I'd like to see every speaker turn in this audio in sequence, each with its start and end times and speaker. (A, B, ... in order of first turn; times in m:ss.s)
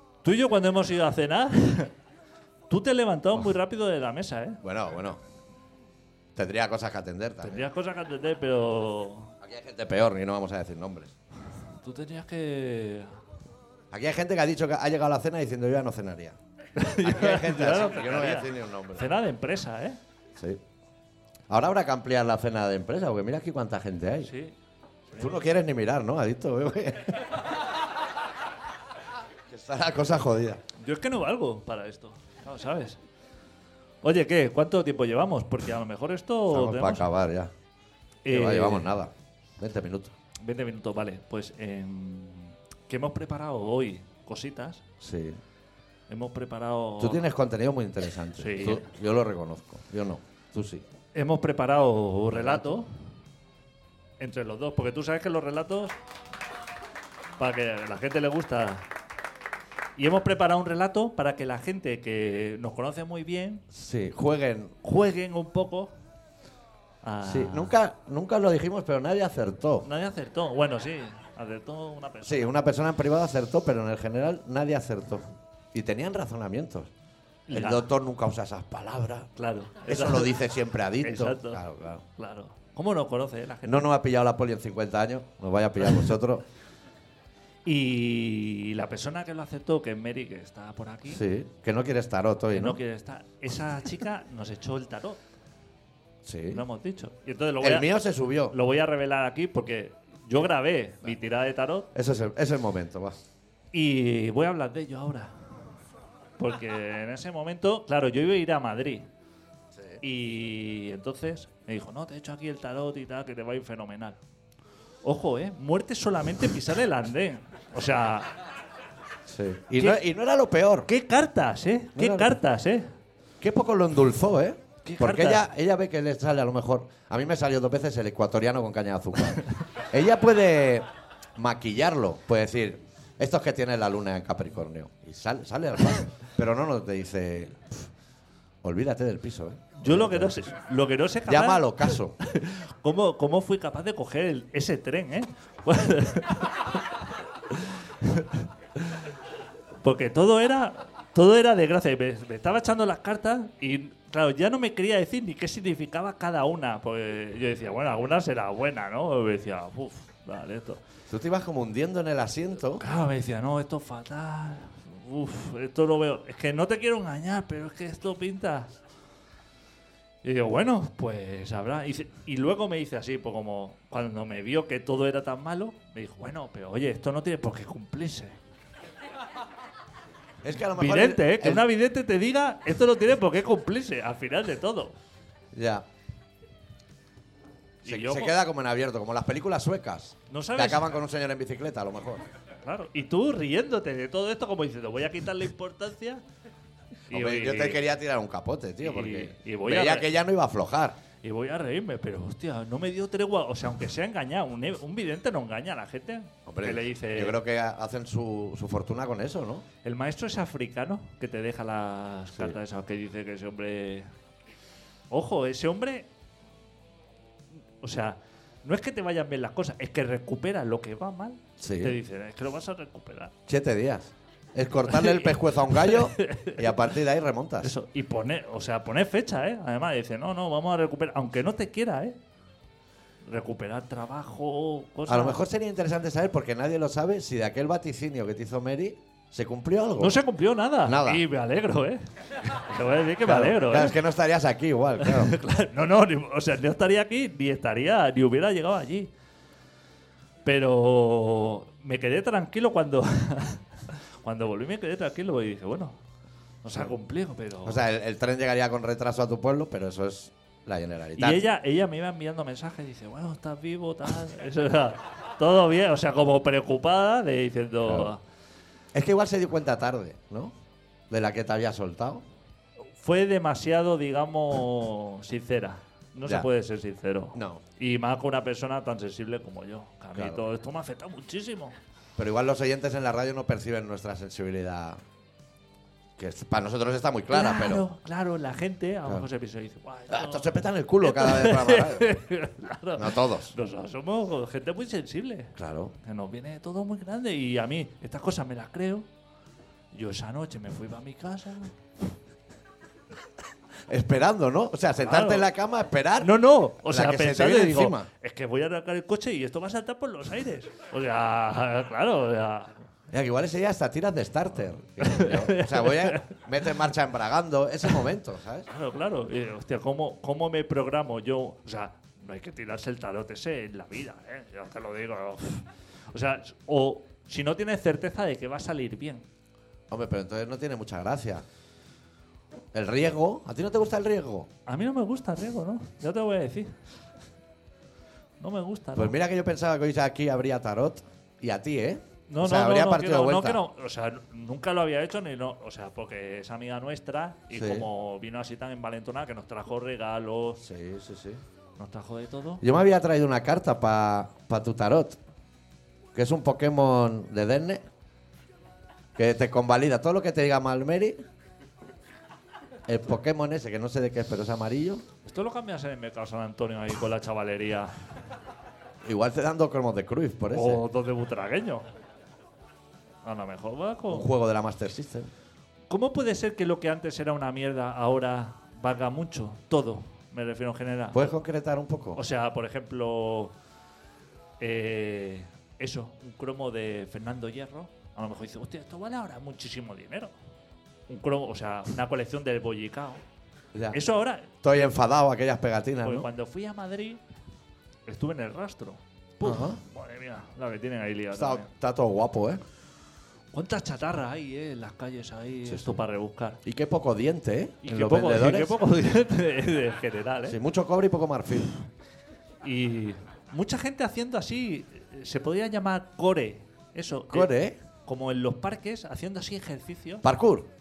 0:00.2-0:01.9 A
0:02.7-0:04.6 A
0:04.6-0:05.2 B
0:06.4-0:07.6 B
0:07.4-0:09.3 A
0:09.4-0:11.1 B
0:11.8-0:13.2 A
0:13.9-0:16.4 B
0:16.8-0:20.0 A
0:17.0-0:19.1 B
0:20.4-0:20.6 B
0:21.5-0:24.3 B
0:24.2-0:24.6 A
0:25.1-0:25.4 A
0:25.2-0:27.5 B
0:29.5-0:30.6 B
0:30.8-0:33.0 A
0:34.0-0:37.1 A
0:36.5-0:37.5 B
0:38.2-0:38.9 A
0:38.3-0:40.1 B
0:40.4-0:44.8 A
0:45.0-0:45.4 B
0:46.1-0:47.2 A
0:47.0-0:50.8 B
0:48.4-0:48.9 A
0:51.1-0:52.9 A
0:52.3-0:52.8 B
0:54.2-0:56.0 A
0:57.4-0:58.9 A
1:00.0-1:03.6 A
1:03.7-1:04.7 B
1:04.8-1:05.9 A
1:07.0-1:07.8 A
1:07.2-1:09.9 B
1:09.8-1:12.6 A
1:12.2-1:16.9 B
1:17.5-1:17.9 A
1:17.5-1:19.3 B
1:19.4-1:20.4 A
1:19.9-1:22.0 B
1:21.0-1:21.6 A
1:22.2-1:23.9 A
1:23.6-1:26.4 B
1:27.7-1:31.2 A
1:31.1-1:32.8 B
1:32.5-1:35.2 A
1:36.2-1:36.6 B
1:36.5-1:37.9 A
1:37.6-1:38.6 B
1:38.5-1:41.9 A
1:41.9-1:43.2 B
1:43.7-1:45.5 A
1:46.4-1:49.1 A
1:49.8-1:50.0 B
1:50.0-1:54.2 A
1:55.0-1:58.4 A
1:59.3-2:00.9 B
2:00.9-2:02.9 A
2:02.0-2:02.3 B
2:03.4-2:10.8 B
2:04.8-2:05.4 A
2:11.4-2:17.9 B
2:18.6-2:20.5 B
2:19.8-2:29.2 A
2:21.3-2:22.2 B
2:29.8-2:40.8 A
2:41.1-2:42.8 B
2:42.8-2:48.8 A
2:50.2-2:58.4 A
3:00.4-3:01.7 B
3:00.7-3:05.0 A
3:05.5-3:05.8 B
3:07.8-3:08.4 A
3:07.8-3:12.2 B
3:10.3-3:10.9 A
3:12.6-3:16.2 A
3:17.1-3:17.8 A
3:17.1-3:21.0 B
3:18.8-3:20.1 A
3:21.2-3:27.4 A
3:26.5-3:29.6 B
3:29.8-3:34.1 A
3:35.1-3:36.1 A
3:37.8-3:43.3 A
3:41.6-3:42.0 B
3:43.5-3:47.7 B
3:44.9-3:46.7 A
3:47.6-3:52.2 A
3:53.3-3:55.4 A
3:55.1-4:00.2 B
4:00.0-4:04.0 A
4:00.8-4:01.2 B
4:03.2-4:05.4 B
4:05.0-4:09.1 A
4:10.4-4:16.0 A
4:16.6-4:17.8 A
4:17.6-4:21.5 B
4:21.2-4:28.2 A
4:27.8-4:28.1 B
4:28.9-4:30.6 B
4:31.1-4:32.2 B
4:33.0-4:41.8 A
4:37.4-4:37.6 B
4:40.1-4:40.4 B
4:42.2-4:45.0 B
4:46.2-4:47.9 B
4:47.3-4:59.1 A
4:50.1-4:52.2 B
4:53.0-4:53.5 B
4:55.6-4:55.9 B
4:59.9-5:01.8 A
5:03.9-5:08.1 B
5:05.0-5:05.5 A
5:06.2-5:12.9 A
5:13.1-5:18.7 B
5:15.0-5:16.4 A
5:18.7-5:29.2 A
5:29.9-5:31.4 B
5:32.7-5:34.5 B
5:34.7-5:36.8 A
5:38.4-5:39.2 A
5:39.0-5:43.6 B
5:42.3-5:50.6 A
5:47.5-5:47.9 B
5:50.6-5:51.4 B
5:51.8-5:52.6 A
5:52.6-5:55.2 B
5:56.2-5:57.8 B
5:59.2-6:01.2 B
6:02.9-6:05.0 B
6:05.2-6:08.0 A
6:09.0-6:10.8 B
6:10.5-6:11.8 A
6:13.2-6:14.3 A
6:14.1-6:15.3 B
6:15.9-6:21.2 A
6:21.1-6:22.2 B
6:22.2-6:23.5 A
6:24.6-6:30.3 A
6:31.1-6:33.2 A
6:33.7-6:34.0 B
6:33.9-6:34.6 A
6:34.6-6:36.3 B
6:36.0-6:37.2 A
6:38.1-6:41.7 A
6:39.4-6:39.8 B
6:41.3-6:42.6 B
6:43.5-6:46.6 A
6:45.6-6:46.0 B
6:46.6-6:48.8 B
6:47.8-6:50.6 A
6:50.5-6:51.7 B
6:52.6-6:57.5 A
6:57.3-6:57.8 B
6:58.0-7:00.3 A
7:00.2-7:00.7 B